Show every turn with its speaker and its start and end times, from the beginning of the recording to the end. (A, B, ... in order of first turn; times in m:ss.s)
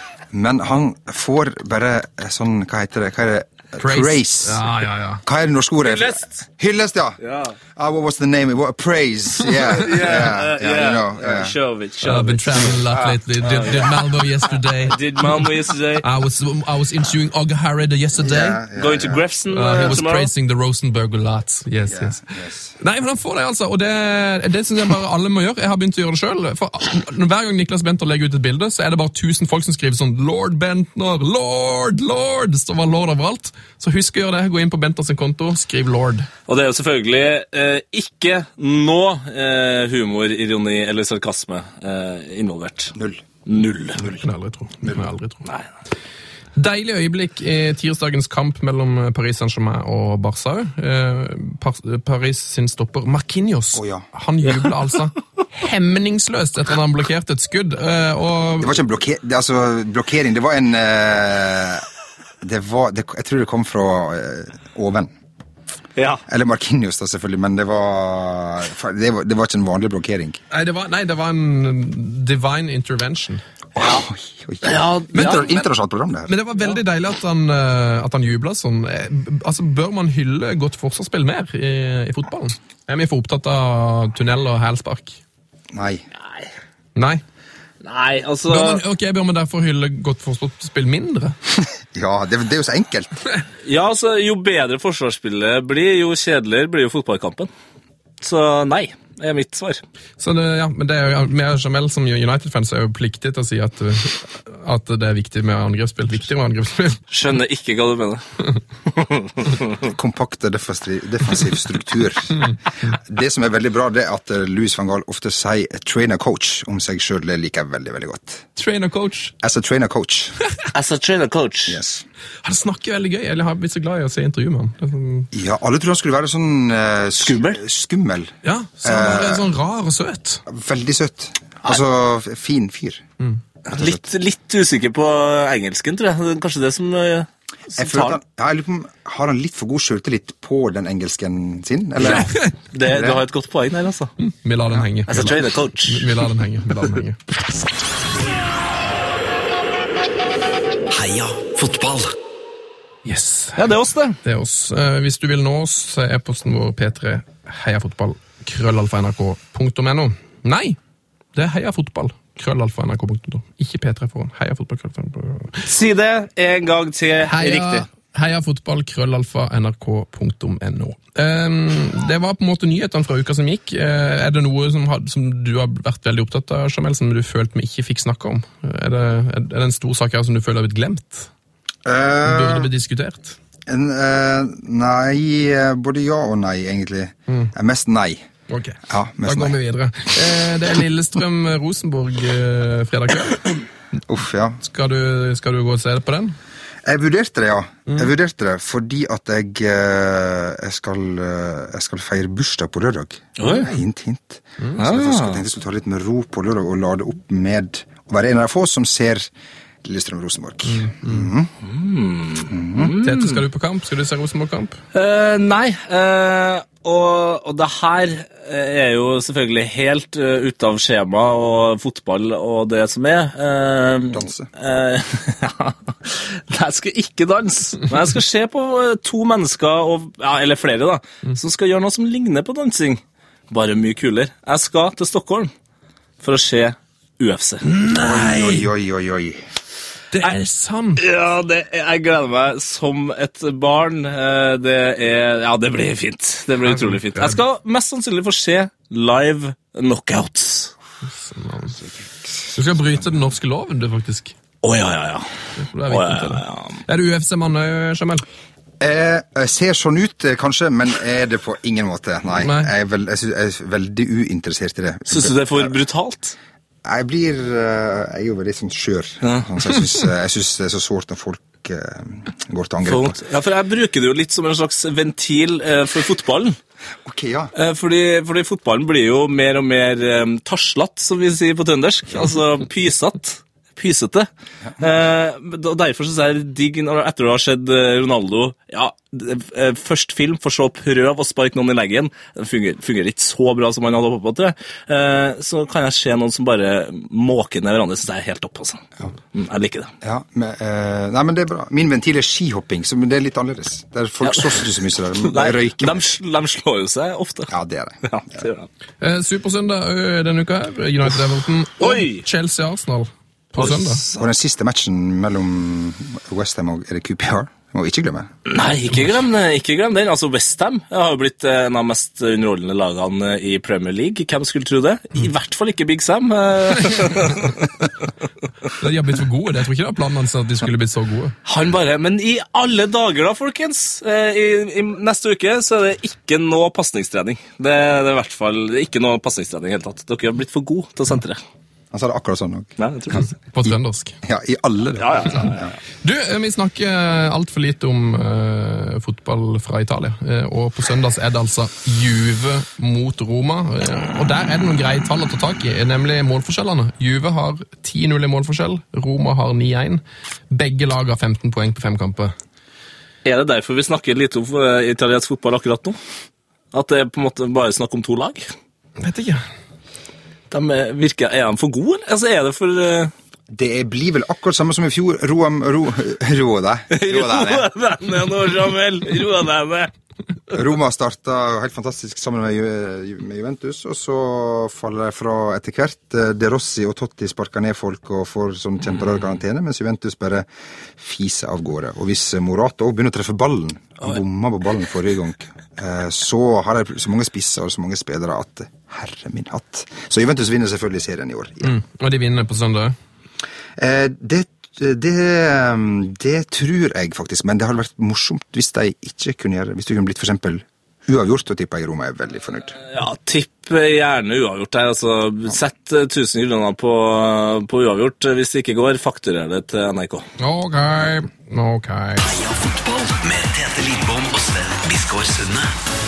0:00.3-0:04.6 A
0:03.8-0:05.2 B
0:05.2-0:07.2 A
0:05.8-0:06.4 C
0:07.2-0:07.6 C
0:07.8-0:11.6 A
0:09.6-0:14.0 C
0:12.0-0:15.0 B
0:14.8-0:16.0 C
0:16.0-0:18.6 B
0:18.2-0:19.2 A
0:18.8-0:20.3 C
0:19.5-0:22.2 B
0:21.9-0:22.8 A
0:22.8-0:36.3 B
0:36.5-0:43.0 C
0:43.0-0:43.2 A
0:43.5-0:44.0 C
0:44.0-0:45.4 B
0:46.6-0:58.8 B
0:53.8-0:54.1 A
0:58.6-1:01.9 A
1:02.4-1:05.1 A
1:06.0-1:06.2 C
1:06.3-1:10.4 A
1:10.5-1:13.4 B
1:13.8-1:16.3 A
1:14.6-1:15.6 C
1:15.1-1:15.6 B
1:16.3-1:25.2 B
1:25.7-1:26.0 A
1:27.0-1:27.2 B
1:27.8-1:28.8 C
1:28.5-1:31.4 B
1:31.9-1:33.1 A
1:33.6-1:37.5 C
1:38.2-1:39.8 C
1:40.2-1:47.0 B
1:47.1-1:48.2 C
1:48.9-1:49.8 C
1:49.8-1:58.5 A
1:58.6-1:59.3 B
1:59.4-2:00.4 A
2:00.7-2:01.8 C
2:01.7-2:02.0 A
2:02.4-2:05.3 B
2:05.3-2:09.4 A
2:07.2-2:07.6 C
2:08.4-2:10.4 B
2:10.5-2:13.0 A
2:13.7-2:18.2 C
2:13.7-2:14.0 A
2:17.8-2:23.2 A
2:22.0-2:24.1 C
2:22.1-2:22.5 B
2:24.3-2:27.2 B
2:25.1-2:26.1 C
2:30.9-2:32.1 D
2:33.0-2:33.6 B
2:33.6-2:34.2 C
2:34.2-2:40.8 B
2:41.4-2:45.6 B
2:45.6-2:47.9 C
2:47.3-3:01.3 B
3:01.8-3:02.7 A
3:02.2-3:03.4 B
3:03.7-3:08.3 A
3:08.5-3:13.6 B
3:08.9-3:09.6 A
3:14.1-3:14.6 A
3:14.6-3:16.4 B
3:16.8-3:29.3 A
3:23.4-3:23.7 C
3:24.8-3:25.4 C
3:29.8-3:31.5 A
3:30.7-3:31.3 B
3:31.6-3:33.4 C
3:32.5-3:32.9 A
3:32.9-3:34.8 B
3:34.9-3:55.5 C
3:44.1-3:44.5 A
3:56.2-3:57.7 C
3:57.6-3:58.7 B
3:57.9-3:59.4 A
4:00.1-4:01.0 B
4:01.0-4:10.7 C
4:06.7-4:07.4 B
4:11.1-4:11.8 B
4:12.0-4:13.0 A
4:12.6-4:14.4 B
4:14.6-4:15.3 C
4:15.6-4:18.2 B
4:15.9-4:16.8 C
4:18.8-4:25.8 A
4:22.4-4:22.7 B
4:25.1-4:26.4 C
4:26.8-4:33.2 A
4:29.2-4:29.5 C
4:32.8-4:36.6 C
4:37.0-4:37.5 A
4:37.6-4:59.9 C
5:00.0-5:06.0 A
5:04.2-5:04.6 C
5:05.2-5:07.5 C
5:07.5-5:08.4 A
5:08.0-5:08.7 C
5:09.0-5:14.0 B
5:11.8-5:12.2 C
5:13.6-5:14.2 C
5:14.1-5:18.3 A
5:18.4-5:27.6 C
5:28.8-5:31.4 B
5:31.5-5:41.4 C
5:41.9-5:42.8 A
5:42.8-5:43.3 C
5:43.4-5:44.2 B
5:44.2-5:45.7 A
5:45.0-5:45.7 C
5:46.0-6:02.3 B
6:03.2-6:06.0 C
6:06.7-6:08.5 C
6:09.0-6:09.4 B
6:10.5-6:13.1 C
6:13.5-6:17.7 A
6:16.9-6:19.9 C
6:20.5-6:41.8 A
6:41.6-6:43.0 B
6:43.8-6:52.8 A
6:52.9-7:00.3 C
7:00.4-7:02.3 B
7:02.2-7:05.8 D